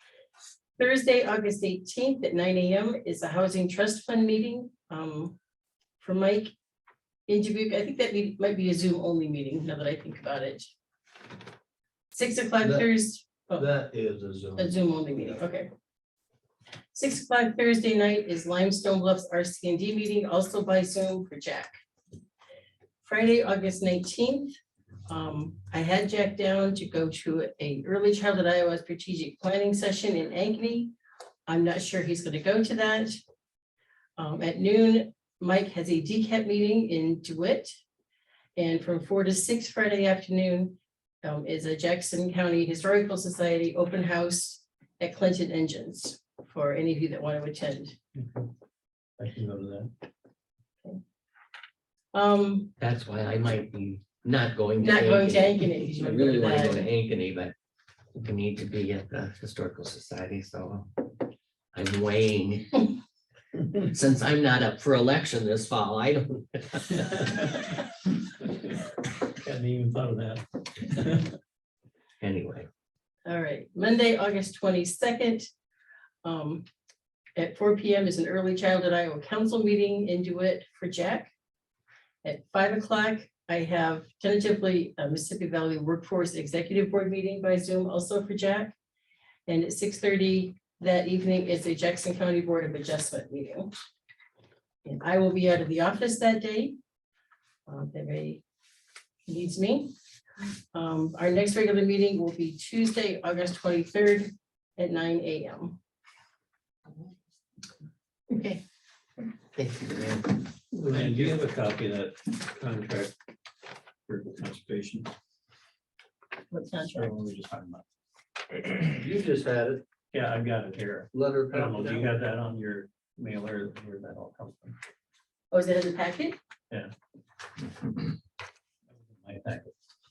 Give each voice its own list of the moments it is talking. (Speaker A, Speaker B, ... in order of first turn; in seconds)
Speaker A: 0.8-5.3, 6.0-6.5, 7.3-10.7, 12.1-13.6, 14.6-15.7, 16.9-21.7, 23.0-24.6, 25.1-30.9, 31.5-33.2, 34.2-37.8, 38.6-47.9, 52.1-52.7, 54.8-56.9, 73.2-75.5, 76.2-76.6, 77.3-81.3, 82.2-88.7, 89.5-93.7, 94.8-96.8, 97.7-98.4, 99.3-99.9, 100.7-105.8, 108.3-108.6, 116.5-117.1, 125.5-126.4
Speaker B: 12.6-12.9, 13.5-14.8, 118.9-119.8, 121.1-122.1
Speaker C: 48.1-48.5, 49.2-49.9, 69.4-71.3, 110.7-113.1, 114.1-115.1, 116.9-117.8, 120.1-124.8, 128.9-129.7
Speaker D: 52.8-57.5, 58.1-61.1, 61.7-62.9, 63.8-67.3, 72.2-72.7, 109.5-110.5